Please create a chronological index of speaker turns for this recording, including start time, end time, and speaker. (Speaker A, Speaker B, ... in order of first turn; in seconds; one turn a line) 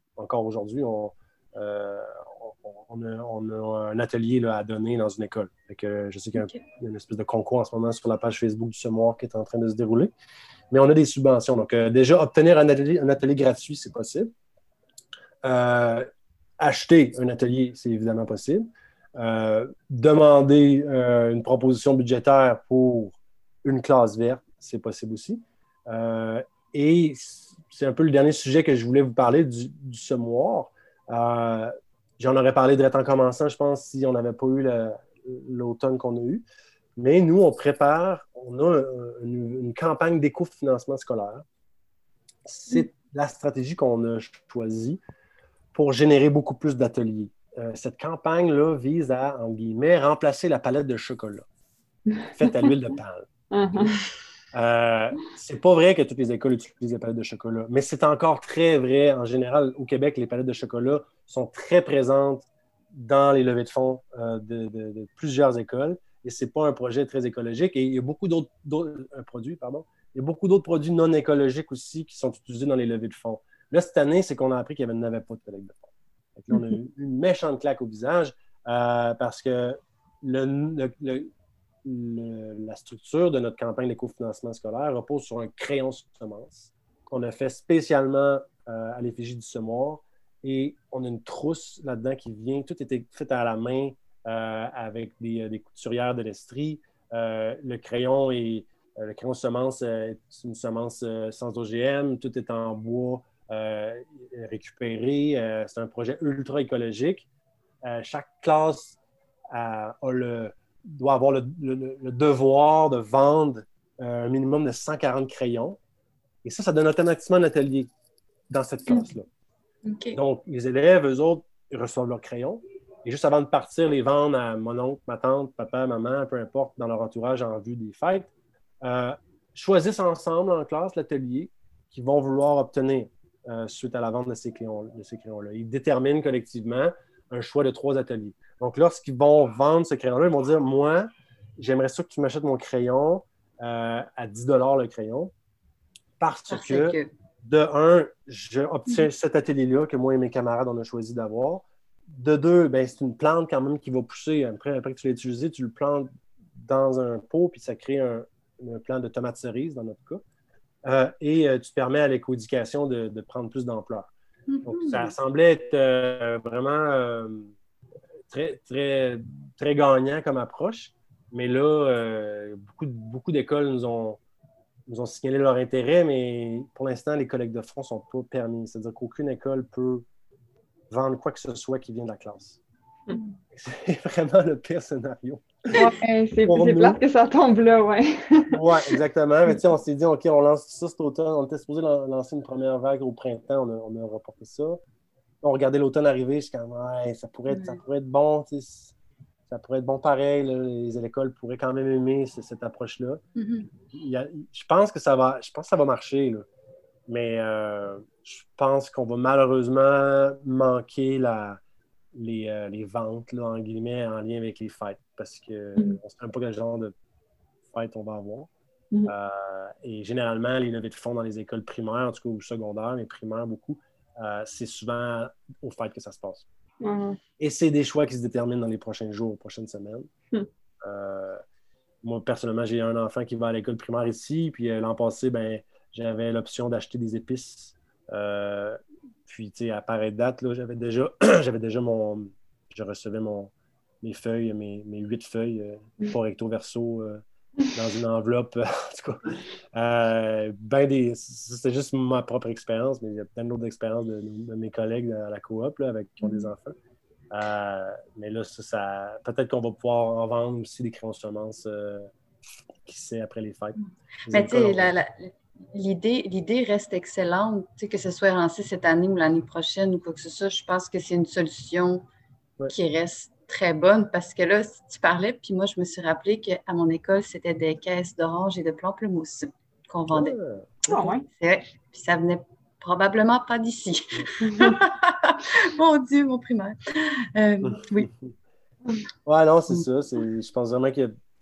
Speaker A: 0.2-10.1
Speaker A: 10.7-14.3
Speaker A: 15.4-16.1
Speaker A: 16.6-36.4
Speaker A: 37.0-41.4
Speaker A: 42.5-45.0
Speaker A: 45.7-51.4
Speaker B: 52.1-52.7
Speaker A: 52.3-53.9
Speaker B: 53.5-54.0
Speaker A: 54.5-81.3
Speaker A: 81.8-107.3
Speaker A: 107.8-109.0
Speaker A: 109.5-115.8
Speaker A: 116.4-117.9
Speaker A: 118.5-119.3
Speaker C: 119.8-120.2
Speaker A: 120.1-128.3
Speaker A: 128.8-145.3
Speaker A: 146.2-160.2
Speaker C: 146.5-147.1
Speaker A: 160.8-164.1
Speaker C: 164.5-165.1
Speaker A: 164.6-167.5
Speaker A: 168.3-174.2
Speaker A: 174.9-180.0
Speaker A: 180.9-182.6
Speaker A: 183.5-185.9
Speaker B: 185.7-188.6
Speaker A: 186.5-187.0
Speaker A: 188.5-194.8
Speaker A: 195.4-198.9
Speaker C: 197.5-197.8
Speaker A: 199.5-203.2
Speaker C: 203.3-203.7
Speaker A: 203.9-206.5
Speaker A: 207.1-211.6
Speaker A: 212.1-216.9
Speaker A: 217.7-218.5
Speaker A: 219.1-226.4
Speaker B: 226.8-227.2
Speaker A: 227.4-230.1
Speaker A: 230.8-231.4
Speaker A: 232.0-247.2
Speaker A: 247.7-256.8
Speaker C: 256.2-256.5
Speaker A: 257.3-262.1
Speaker A: 262.8-263.8
Speaker A: 264.3-264.9
Speaker C: 264.3-272.0
Speaker C: 272.7-280.4
Speaker A: 280.1-281.1
Speaker B: 280.9-281.2
Speaker C: 281.3-288.1
Speaker A: 287.6-288.3
Speaker A: 289.2-291.1